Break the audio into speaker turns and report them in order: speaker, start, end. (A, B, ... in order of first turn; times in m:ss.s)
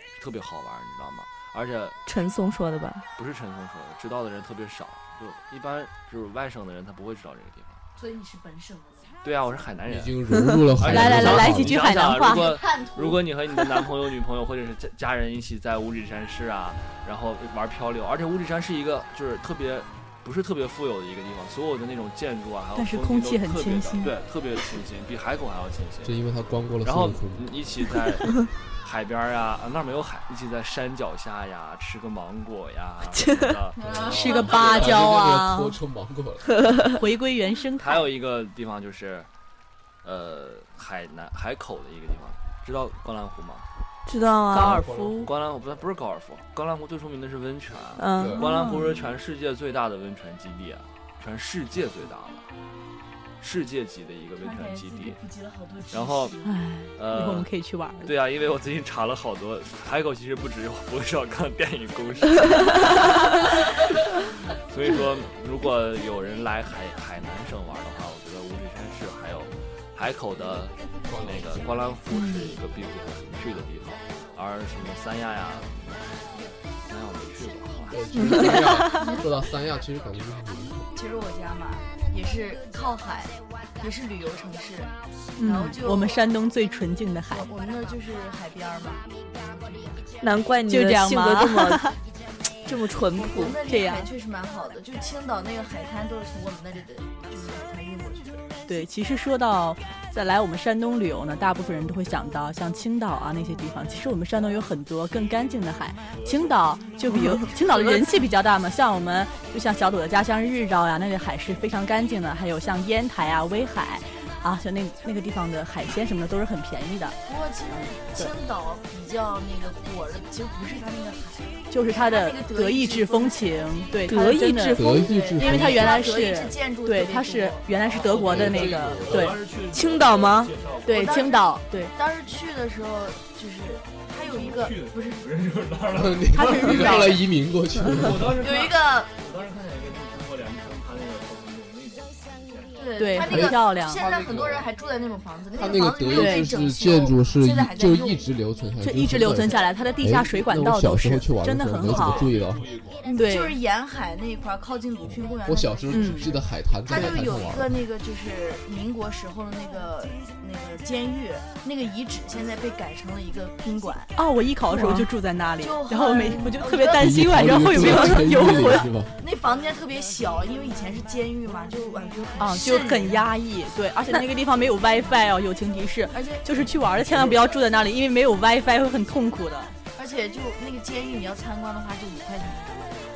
0:00.2-0:02.0 A
0:02.0-0:03.0 B
0:03.2-0:07.8 A
0:08.0-0:09.1 C
0:09.2-0:10.2 A
0:09.8-0:11.8 D
0:10.8-0:26.2 A
0:10.9-0:12.5 E
0:12.2-0:13.2 C
0:22.8-0:24.1 E
0:26.0-0:27.7 D
0:26.8-0:33.8 A
0:33.1-0:33.6 B
0:33.8-0:34.9 C
0:33.8-0:36.8 D
0:34.1-0:35.7 E
0:36.9-0:38.0 E
0:37.8-0:39.3 A
0:40.0-0:43.7 A
0:44.0-0:44.8 B
0:44.5-0:45.3 E
0:44.5-0:45.3 D
0:45.2-0:52.4 A
0:48.0-0:48.5 B
0:48.2-0:48.4 D
0:48.4-0:48.9 E
0:53.4-0:55.2 A
0:54.4-0:56.5 C
0:55.9-0:56.3 A
0:56.4-0:58.1 E
0:57.0-0:57.5 A
0:58.0-1:04.0 A
1:04.5-1:18.0 A
1:11.1-1:11.9 D
1:12.1-1:12.5 E
1:17.9-1:20.9 D
1:18.1-1:18.8 B
1:21.0-1:26.2 C
1:25.4-1:27.5 E
1:27.3-1:30.1 C
1:30.2-1:31.9 B
1:30.7-1:32.0 E
1:32.6-1:33.6 B
1:33.1-1:38.4 C
1:33.7-1:34.1 E
1:38.7-1:57.2 E
1:46.1-1:46.5 A
1:47.5-1:48.0 C
1:57.2-2:03.8 C
2:01.7-2:04.8 E
2:04.0-2:04.9 B
2:04.7-2:06.0 D
2:04.8-2:08.4 C
2:05.3-2:09.4 E
2:07.9-2:11.1 A
2:08.0-2:09.4 D
2:09.7-2:10.6 B
2:10.8-2:11.9 E
2:10.9-2:15.2 C
2:14.2-2:17.0 A
2:15.9-2:18.5 D
2:16.3-2:17.2 E
2:17.9-2:22.8 A
2:18.3-2:19.1 C
2:22.7-2:28.3 C
2:23.0-2:24.0 E
2:23.3-2:24.7 D
2:25.5-2:32.7 D
2:26.1-2:26.5 E
2:28.8-2:32.3 E
2:29.2-2:29.7 C
2:31.9-2:33.0 A
2:33.0-2:36.3 C
2:33.1-2:33.6 E
2:35.1-2:37.8 D
2:35.9-2:36.3 E
2:36.9-2:44.1 C
2:44.1-2:48.9 E
2:44.7-2:45.1 B
2:45.6-2:53.3 C
2:46.9-2:49.1 D
2:52.4-2:59.7 E
2:56.1-2:56.5 C
3:00.0-3:03.0 C